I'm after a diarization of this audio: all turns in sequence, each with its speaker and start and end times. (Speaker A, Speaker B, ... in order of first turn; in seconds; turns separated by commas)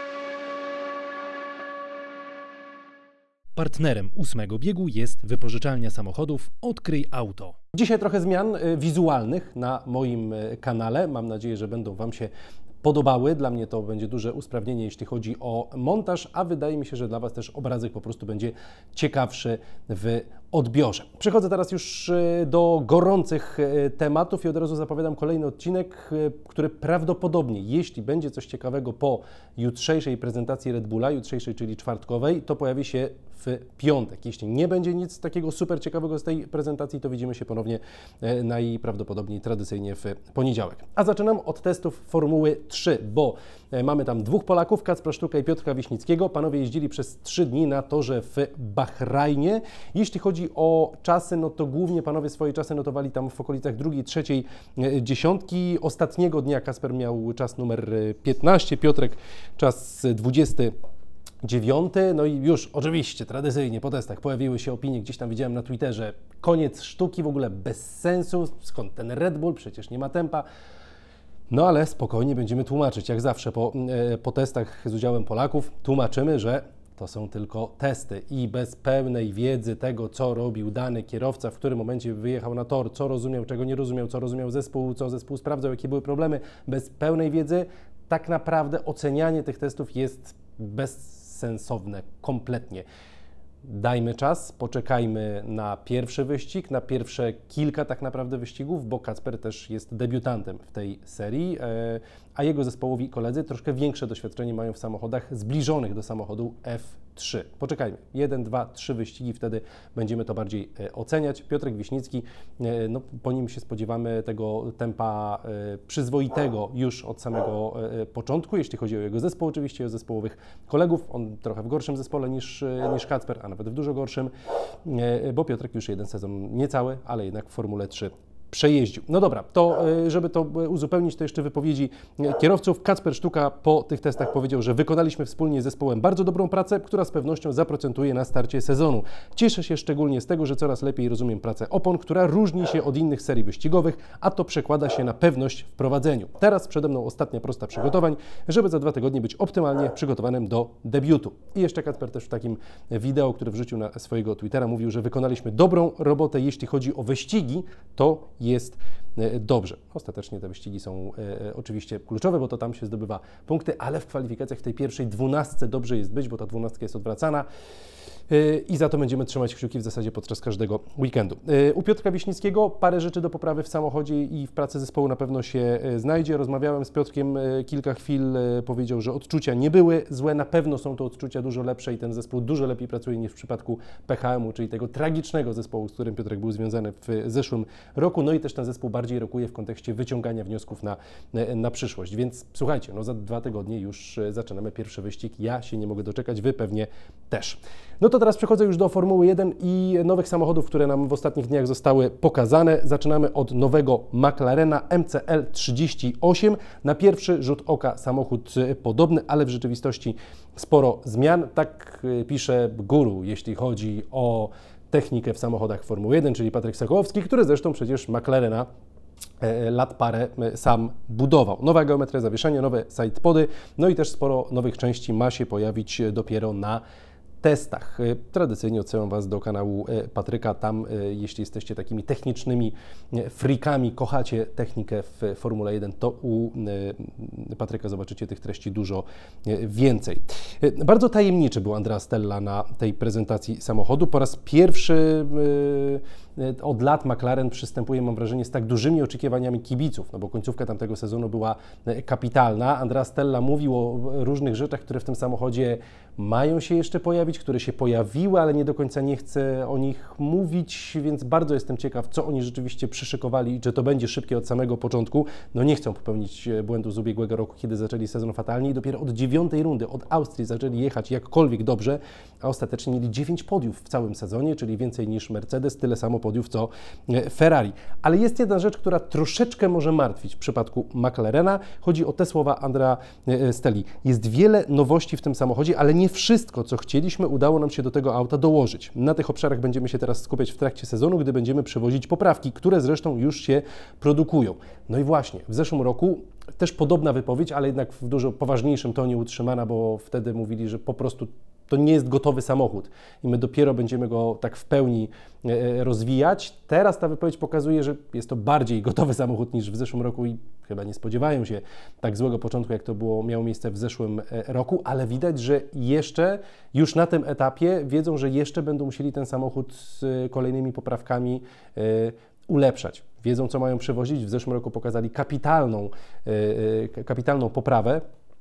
Speaker A: 3.6-12.3, Speaker A: 12.8-60.7, Speaker A: 61.4-70.5, Speaker A: 71.5-92.8, Speaker A: 93.6-124.3, Speaker A: 124.8-167.5, Speaker A: 168.3-218.7, Speaker A: 219.4-226.8, Speaker A: 227.4-328.0